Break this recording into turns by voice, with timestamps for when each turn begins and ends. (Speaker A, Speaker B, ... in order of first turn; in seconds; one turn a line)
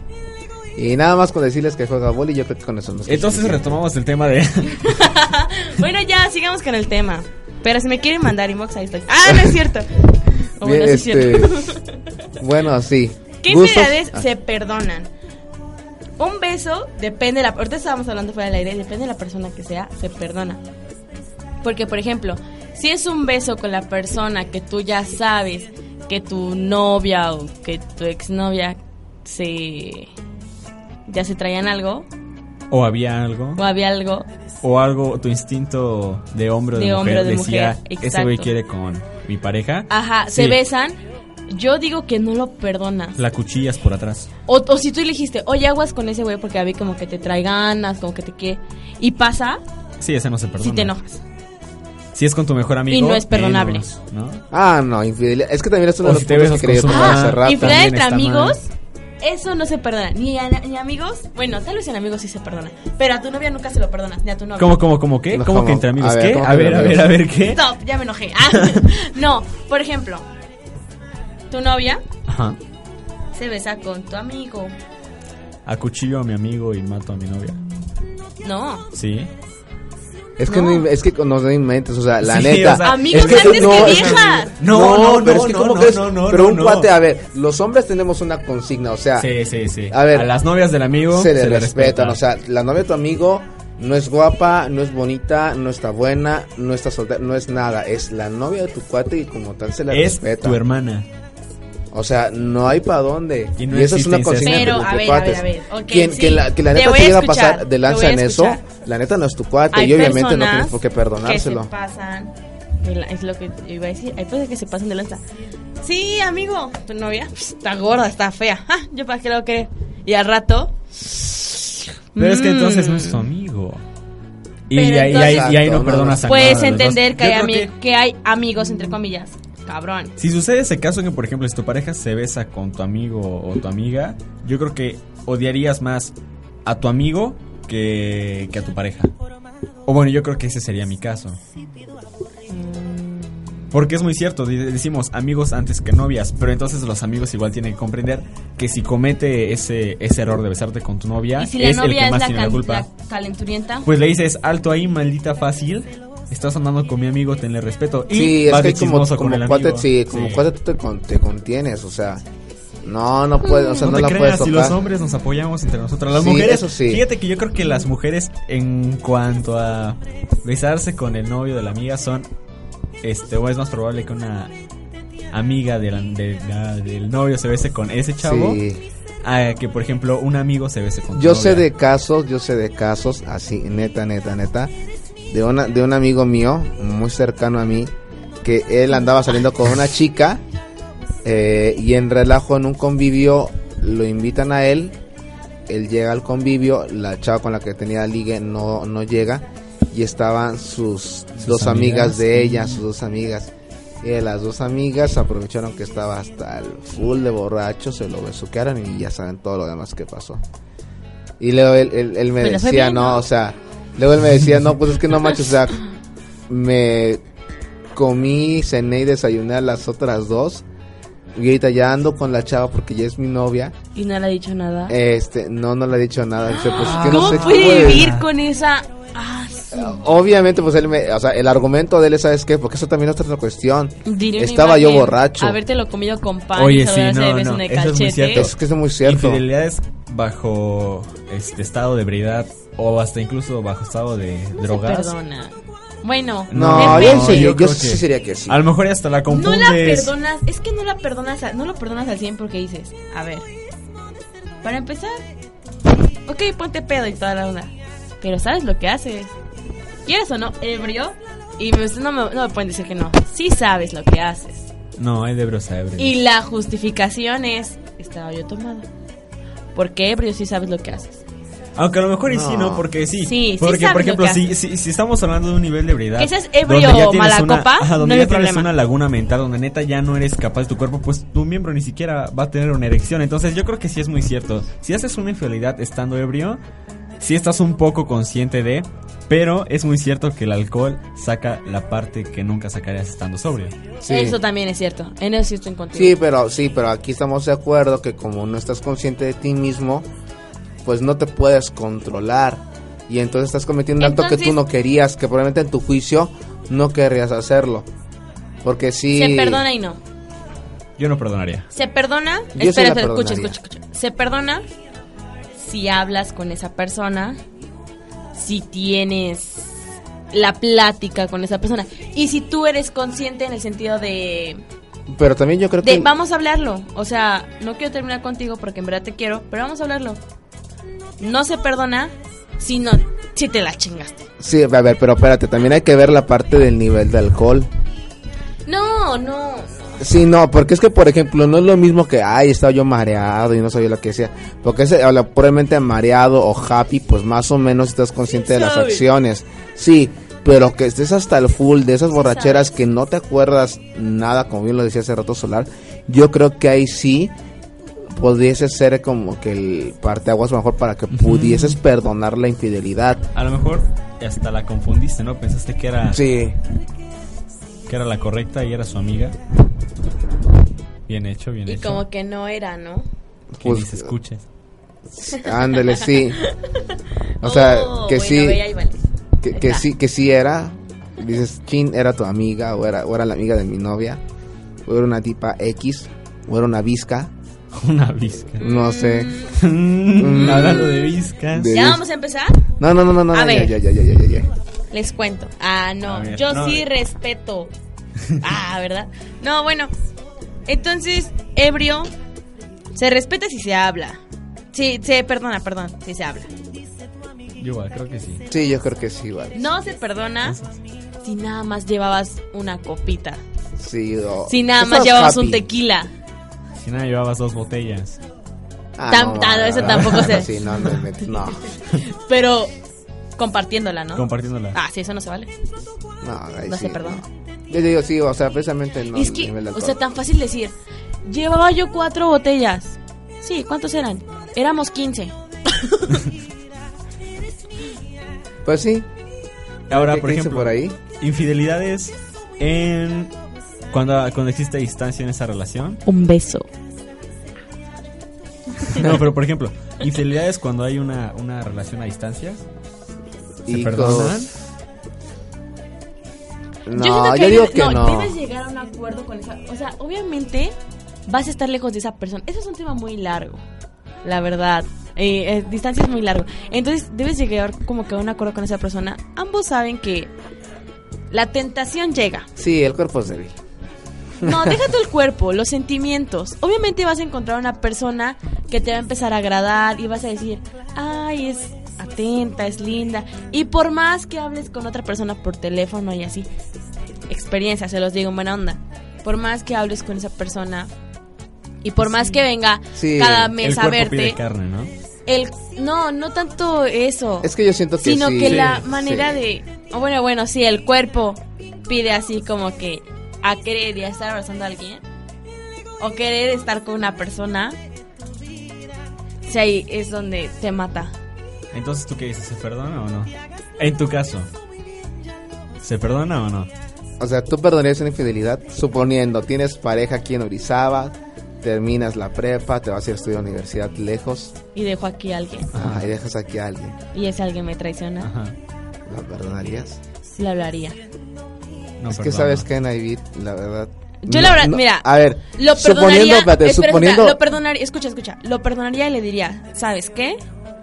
Speaker A: 0.8-3.8
Speaker B: 3.1-5.1
Speaker C: 4.7-11.9
Speaker A: 10.6-11.8
Speaker A: 12.4-14.2
Speaker C: 13.4-15.1
Speaker C: 16.2-20.6
Speaker C: 21.6-30.1
Speaker C: 31.1-32.1
Speaker B: 32.7-33.6
Speaker C: 33.6-34.3
Speaker B: 34.6-40.6
Speaker C: 36.7-38.5
Speaker C: 39.9-41.0
Speaker C: 41.5-43.2
Speaker B: 43.2-44.3
Speaker C: 44.5-49.6
Speaker B: 50.0-50.9
Speaker C: 50.6-51.2
Speaker B: 52.1-54.4
Speaker C: 52.9-53.9
Speaker A: 54.5-57.8
Speaker B: 56.0-58.6
Speaker C: 56.9-58.7
Speaker C: 59.2-64.8
Speaker B: 64.6-67.6
Speaker A: 65.3-67.2
Speaker C: 67.4-70.3
Speaker B: 68.5-68.8
Speaker C: 71.5-72.0
Speaker B: 72.3-72.6
Speaker C: 73.3-74.8
Speaker B: 75.7-77.6
Speaker C: 78.4-78.9
Speaker B: 78.9-79.3
Speaker A: 80.4-89.3
Speaker C: 80.5-80.8
Speaker B: 82.2-86.9
Speaker C: 82.8-84.5
Speaker B: 89.2-92.2
Speaker A: 89.9-90.3
Speaker A: 91.1-100.6
Speaker B: 99.9-101.1
Speaker A: 101.9-111.7
Speaker B: 103.6-104.8
Speaker C: 104.4-108.6
Speaker C: 109.7-115.2
Speaker C: 115.8-120.8
Speaker C: 122.2-123.3
Speaker B: 122.2-123.8
Speaker B: 124.7-127.7
Speaker C: 124.7-125.5
Speaker A: 125.1-126.4
Speaker C: 126.2-130.1
Speaker B: 130.2-136.1
Speaker B: 136.7-139.1
Speaker B: 139.9-141.4
Speaker C: 142.5-143.6
Speaker B: 143.7-152.9
Speaker C: 151.4-153.9
Speaker B: 153.9-160.4
Speaker A: 158.1-162.2
Speaker A: 162.8-164.8
Speaker B: 163.8-172.3
Speaker A: 166.1-167.1
Speaker B: 173.0-174.5
Speaker B: 175.3-178.6
Speaker A: 178.2-178.8
Speaker B: 179.2-181.7
Speaker A: 181.2-184.7
Speaker A: 185.3-187.9
Speaker A: 188.4-190.4
Speaker A: 191.2-195.0
Speaker A: 195.7-210.4
Speaker B: 201.4-202.8
Speaker A: 211.4-215.8
Speaker C: 212.4-213.2
Speaker A: 216.5-217.2
Speaker A: 217.9-220.7
Speaker A: 221.3-223.8
Speaker C: 223.9-224.9
Speaker A: 224.9-228.2
Speaker C: 226.5-230.0
Speaker B: 226.7-228.2
Speaker A: 229.7-235.6
Speaker C: 234.1-238.5
Speaker B: 236.6-245.1
Speaker A: 238.3-239.4
Speaker C: 244.6-247.5
Speaker B: 246.5-250.1
Speaker A: 246.5-248.6
Speaker C: 249.3-253.5
Speaker C: 254.6-255.2
Speaker C: 256.2-259.4
Speaker C: 260.1-264.7
Speaker B: 265.0-266.1
Speaker C: 266.0-268.9
Speaker C: 269.8-271.2
Speaker B: 271.8-286.6
Speaker A: 272.3-272.9
Speaker C: 273.2-274.5
Speaker C: 276.2-278.7
Speaker B: 287.2-293.8
Speaker A: 294.0-294.4
Speaker C: 294.1-296.2
Speaker A: 295.9-300.1
Speaker A: 300.8-307.9
Speaker C: 304.0-304.6
Speaker A: 308.6-309.6
Speaker C: 309.1-310.0
Speaker B: 311.0-311.7
Speaker C: 311.7-314.7
Speaker A: 312.6-313.6
Speaker C: 315.6-317.4
Speaker C: 318.3-319.8
Speaker C: 320.3-324.6
Speaker A: 325.1-326.1
Speaker C: 325.8-330.2
Speaker C: 331.2-334.3
Speaker A: 334.4-337.7
Speaker C: 338.7-340.0
Speaker A: 340.0-357.3
Speaker C: 348.4-349.1
Speaker C: 352.2-352.7
Speaker A: 358.1-363.3
Speaker B: 361.1-361.8
Speaker B: 363.4-366.2
Speaker A: 366.1-366.6
Speaker B: 367.9-369.4
Speaker B: 371.1-372.0
Speaker C: 371.7-373.1
Speaker A: 373.5-374.1
Speaker B: 373.6-374.4
Speaker A: 375.1-376.4
Speaker C: 375.3-379.0
Speaker A: 377.4-378.6
Speaker A: 379.4-384.2
Speaker C: 379.5-379.9
Speaker A: 384.9-387.3
Speaker B: 387.7-388.6
Speaker A: 388.6-389.4
Speaker C: 388.6-389.6
Speaker B: 389.5-391.8
Speaker A: 390.2-392.0
Speaker C: 391.7-392.6
Speaker A: 392.8-394.5
Speaker C: 393.3-393.8
Speaker C: 394.9-397.7
Speaker B: 396.1-396.9
Speaker C: 398.4-399.9
Speaker C: 400.7-402.1
Speaker C: 402.9-404.2
Speaker C: 404.7-406.5
Speaker B: 407.6-408.4
Speaker A: 408.5-409.7
Speaker C: 409.5-410.6
Speaker B: 410.4-410.7
Speaker C: 411.2-413.4
Speaker A: 413.8-415.6
Speaker C: 414.5-416.1
Speaker B: 416.8-418.2
Speaker A: 419.0-421.8
Speaker C: 419.1-420.6
Speaker C: 421.8-422.7
Speaker C: 423.4-425.5
Speaker B: 424.2-424.8
Speaker A: 426.2-430.0
Speaker C: 426.7-427.2
Speaker C: 429.1-430.7
Speaker C: 431.2-436.2
Speaker A: 438.6-439.1
Speaker A: 439.9-441.0
Speaker B: 439.9-443.3
Speaker B: 443.9-446.0
Speaker C: 446.1-446.7
Speaker C: 448.8-449.1
Speaker B: 448.9-452.6
Speaker A: 453.7-454.5
Speaker B: 453.7-454.6
Speaker A: 456.9-458.4
Speaker C: 456.9-460.8
Speaker C: 461.3-463.6
Speaker C: 464.2-470.3
Speaker C: 471.3-472.5
Speaker A: 472.6-473.6
Speaker A: 474.4-474.8
Speaker C: 474.4-486.5
Speaker C: 487.3-490.9
Speaker C: 491.8-494.4
Speaker A: 492.9-493.5
Speaker B: 493.6-494.9
Speaker C: 495.3-505.0
Speaker A: 497.4-499.4
Speaker B: 498.5-498.8
Speaker C: 506.0-507.8
Speaker C: 509.4-511.1
Speaker B: 511.7-514.5
Speaker B: 515.8-516.7
Speaker A: 517.2-524.5
Speaker C: 524.8-525.7
Speaker A: 525.7-527.0
Speaker B: 525.8-526.0
Speaker C: 527.1-528.3
Speaker B: 528.2-528.5
Speaker A: 529.1-530.0
Speaker C: 530.3-531.0
Speaker B: 532.0-532.7
Speaker A: 532.1-537.4
Speaker C: 534.2-540.4